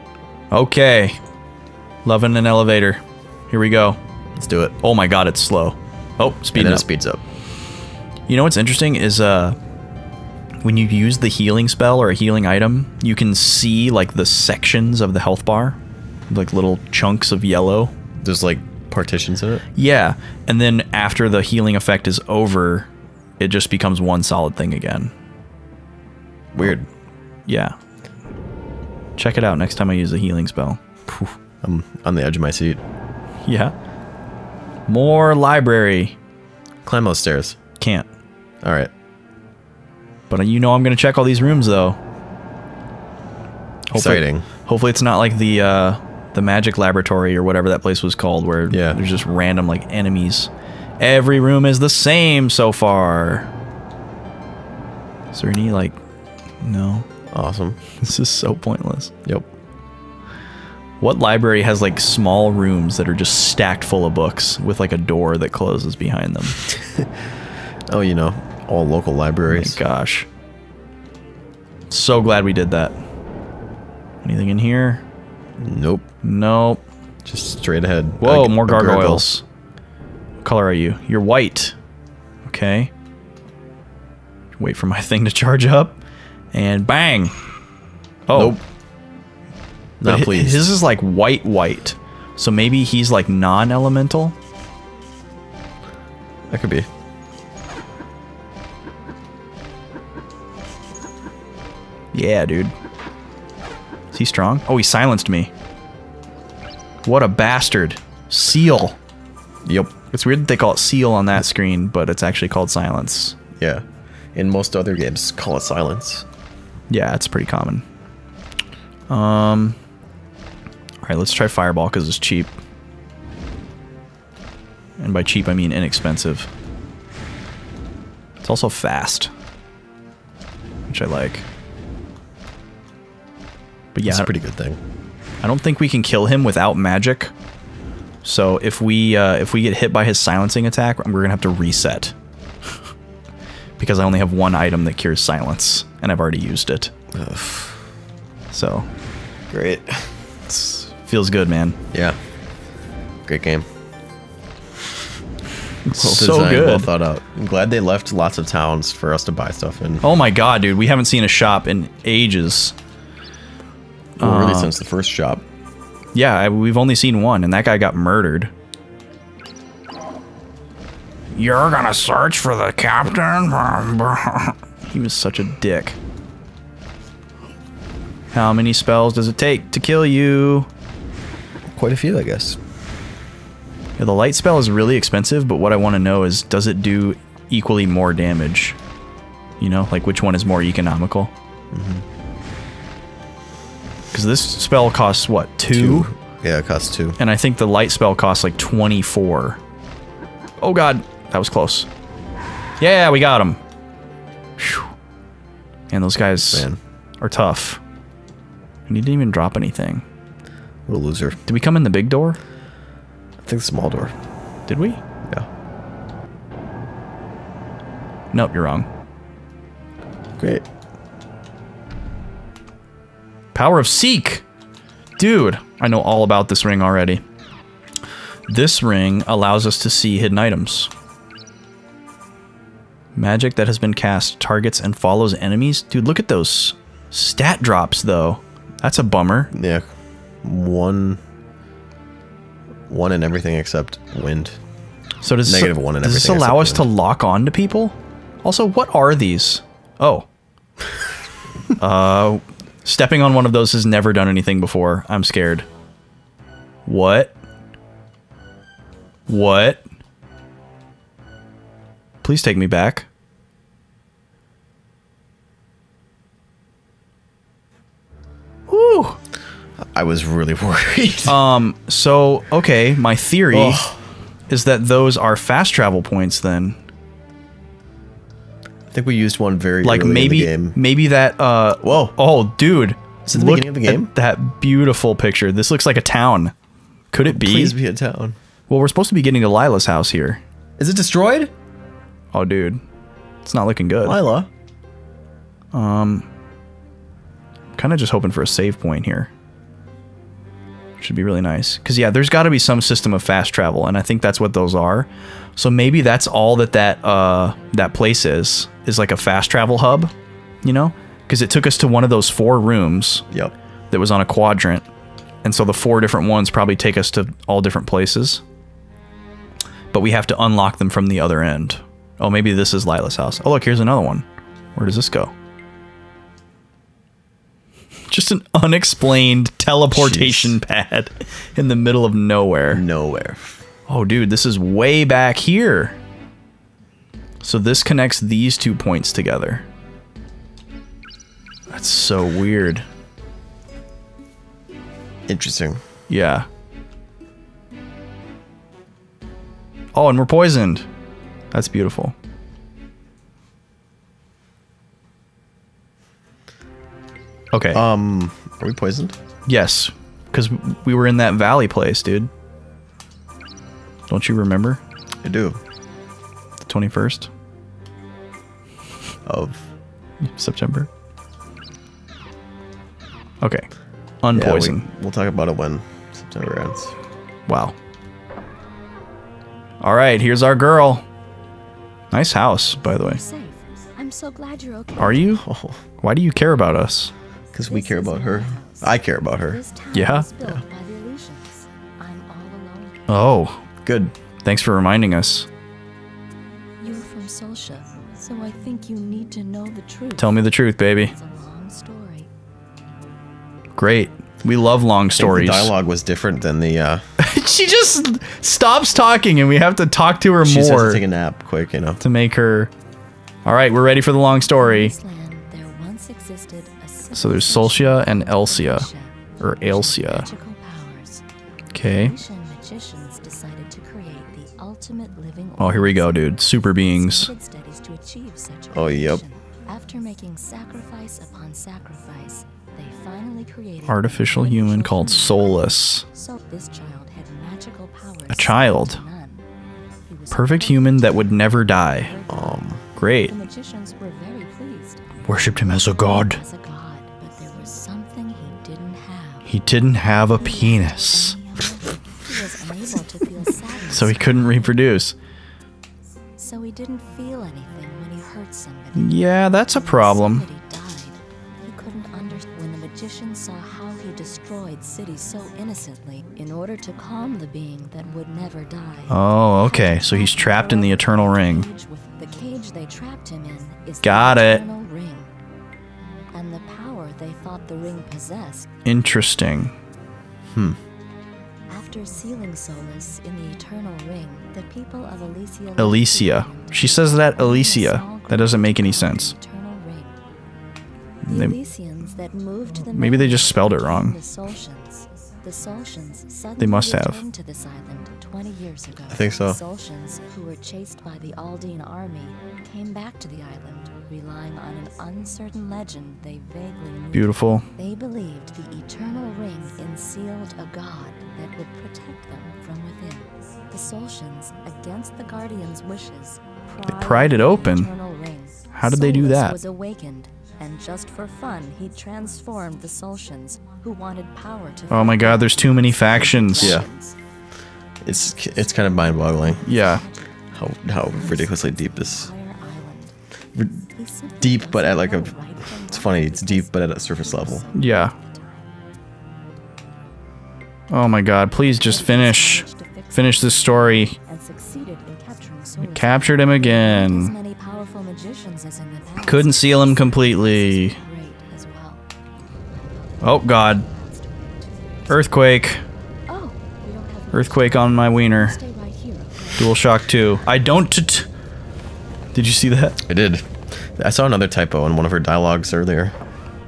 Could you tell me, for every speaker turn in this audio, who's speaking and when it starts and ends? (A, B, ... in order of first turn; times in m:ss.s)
0:00.5-0:01.2 A
0:02.0-0:04.0 A
0:04.4-0:04.8 B
0:04.8-0:06.9 A
0:06.5-0:07.2 B
0:08.3-0:09.6 A
0:10.6-0:15.8 A
0:16.3-0:17.9 A
0:18.2-0:19.6 B
0:19.8-0:25.1 A
0:26.5-0:26.9 B
0:27.5-0:27.8 A
0:29.2-0:30.8 A
0:31.1-0:32.8 B
0:33.4-0:33.7 A
0:34.9-0:36.2 A
0:36.8-0:37.6 B
0:37.8-0:38.1 A
0:38.6-0:38.9 B
0:40.3-0:42.0 A
0:43.9-0:53.5 A
0:43.9-0:44.5 B
0:48.7-0:49.0 B
0:55.3-0:56.0 A
0:56.6-0:57.1 A
0:57.3-0:57.8 B
0:58.0-0:59.1 A
1:01.0-1:06.6 A
1:06.7-1:07.1 B
1:07.9-1:09.8 B
1:09.5-1:10.3 A
1:11.9-1:13.0 A
1:14.2-1:15.0 A
1:15.6-1:16.1 B
1:16.2-1:16.8 A
1:17.2-1:19.3 B
1:18.2-1:19.4 A
1:20.4-1:21.8 A
1:22.4-1:22.9 A
1:24.6-1:26.0 A
1:26.5-1:27.4 A
1:28.3-1:28.6 A
1:28.3-1:28.6 B
1:30.0-1:30.7 B
1:30.0-1:34.4 A
1:36.5-1:36.9 B
1:42.1-1:42.7 A
1:44.1-1:45.5 A
1:47.0-1:49.0 A
1:49.6-1:49.9 B
1:50.1-1:53.4 A
1:53.6-1:56.3 B
1:56.9-1:57.8 A
1:59.1-1:59.8 A
2:01.0-2:02.6 A
2:05.0-2:06.5 A
2:08.4-2:09.3 A
2:10.9-2:11.4 A
2:13.9-2:14.3 A
2:14.0-2:14.8 B
2:15.4-2:17.3 A
2:18.2-2:22.2 A
2:23.8-2:26.9 A
2:27.1-2:27.8 B
2:28.5-2:28.9 A
2:29.5-2:30.2 B
2:30.5-2:31.8 A
2:31.9-2:32.2 B
2:33.3-2:33.7 B
2:35.8-2:36.9 A
2:36.0-2:40.0 B
2:40.0-2:42.8 A
2:44.2-2:45.4 B
2:44.2-2:44.7 A
2:46.2-2:48.5 A
2:51.3-2:56.0 A
2:58.3-3:00.7 A
3:01.7-3:02.6 B
3:04.0-3:08.8 A
3:09.6-3:11.3 A
3:11.7-3:12.0 B
3:14.1-3:16.1 A
3:15.7-3:17.2 B
3:17.2-3:19.6 A
3:20.6-3:21.9 A
3:22.8-3:23.6 A
3:24.6-3:24.9 A
3:25.9-3:26.7 A
3:26.4-3:26.8 B
3:27.2-3:27.8 A
3:28.9-3:30.0 A
3:30.9-3:31.4 B
3:31.5-3:32.4 A
3:33.4-3:34.1 B
3:34.7-3:35.0 A
3:38.3-3:38.9 A
3:40.4-3:40.6 B
3:43.5-3:44.4 A
3:45.2-3:47.2 A
3:48.5-3:50.9 A
3:53.2-3:59.5 A
3:59.5-3:59.9 B
4:00.4-4:01.2 B
4:02.9-4:04.6 B
4:05.2-4:10.3 A
4:05.4-4:06.9 B
4:11.8-4:15.7 A
4:16.9-4:17.4 A
4:19.3-4:19.8 A
4:22.2-4:23.1 A
4:28.7-4:29.2 A
4:29.9-4:31.4 B
4:31.3-4:33.8 A
4:33.5-4:34.0 B
4:34.5-4:36.8 A
4:38.9-4:40.8 B
4:39.8-4:46.5 A
4:41.8-4:42.2 B
4:43.3-4:44.1 B
4:47.1-4:47.8 A
4:47.3-4:48.4 B
4:48.7-4:50.4 A
4:50.8-4:51.5 B
4:52.3-4:52.8 A
4:53.4-4:54.2 A
4:54.0-4:54.5 B
4:55.7-4:56.3 A
4:57.8-4:59.3 A
5:01.0-5:13.2 A
5:13.9-5:14.9 A
5:15.4-5:18.4 A
5:19.9-5:25.3 A
5:28.1-5:32.8 A
5:29.9-5:30.6 B
5:32.7-5:33.6 B
5:33.9-5:36.0 A
5:37.4-5:39.7 A
5:41.7-5:42.8 A
5:45.3-5:45.8 B
5:46.1-5:46.5 A
5:49.9-5:50.9 A
5:51.5-5:52.2 A
5:57.5-5:57.8 A
5:57.7-5:59.2 B
5:59.5-6:02.3 A
6:04.1-6:04.8 A
6:05.2-6:05.6 B
6:06.6-6:07.3 A
6:09.3-6:09.7 B
6:10.3-6:10.9 A
6:13.4-6:13.7 A
6:14.2-6:14.9 A
6:14.3-6:16.9 B
6:17.5-6:17.8 A
6:19.8-6:21.0 A
6:22.1-6:23.2 A
6:22.8-6:25.4 C
6:25.0-6:25.4 A
6:25.4-6:25.8 B
6:26.0-6:27.1 A
6:27.5-6:28.9 C
6:27.5-6:29.6 B
6:29.4-6:33.1 C
6:29.9-6:30.3 A
6:33.1-6:35.5 A
6:36.8-6:42.3 C
6:40.2-6:41.1 A
6:43.8-6:45.7 A
6:45.2-6:47.0 B
6:47.2-6:51.0 A
6:50.4-6:52.0 B
6:52.0-6:52.7 A
6:53.4-6:55.0 A
6:54.5-7:01.2 C
6:57.1-6:58.9 A
6:59.4-7:00.3 A
7:01.7-7:02.2 A
7:01.8-7:19.5 C
7:05.6-7:07.3 A
7:08.7-7:09.2 B
7:13.8-7:16.1 A
7:18.3-7:19.0 A
7:20.1-7:29.5 C
7:20.3-7:22.1 A
7:22.3-7:22.8 B
7:23.0-7:23.3 A
7:25.2-7:26.4 A
7:29.4-7:31.4 A
7:30.3-7:34.8 C
7:33.9-7:35.2 A
7:36.4-7:55.3 C
7:39.0-7:40.5 A
7:49.1-7:51.7 A
7:54.0-7:54.6 A
7:56.3-7:58.7 C
7:58.8-7:59.8 A
8:00.5-8:00.8 B
8:01.7-8:10.2 C
8:05.8-8:09.3 A
8:11.2-8:11.6 A
8:11.3-8:47.2 C
8:12.9-8:14.2 A
8:16.6-8:17.2 A
8:19.1-8:19.6 B
8:27.1-8:27.7 A
8:36.9-8:37.9 A
8:38.7-8:39.6 A
8:44.9-8:46.8 A
8:46.6-8:46.9 B
8:48.0-8:49.6 B
8:48.8-8:53.1 C
8:49.6-8:50.0 A
8:50.6-8:52.3 B
8:53.6-8:53.8 B
8:54.0-8:58.7 C
8:54.4-8:55.3 B
8:55.9-8:57.7 B
8:57.7-8:58.1 A
9:00.9-9:04.2 A
9:01.6-9:12.0 C
9:05.8-9:07.3 A
9:09.2-9:11.0 A
9:12.7-9:14.7 C
9:13.2-9:13.8 A
9:15.1-9:15.8 A
9:16.3-9:19.8 C
9:17.3-9:18.6 A
9:19.6-9:21.3 A
9:22.3-9:23.0 A
9:23.0-9:26.2 B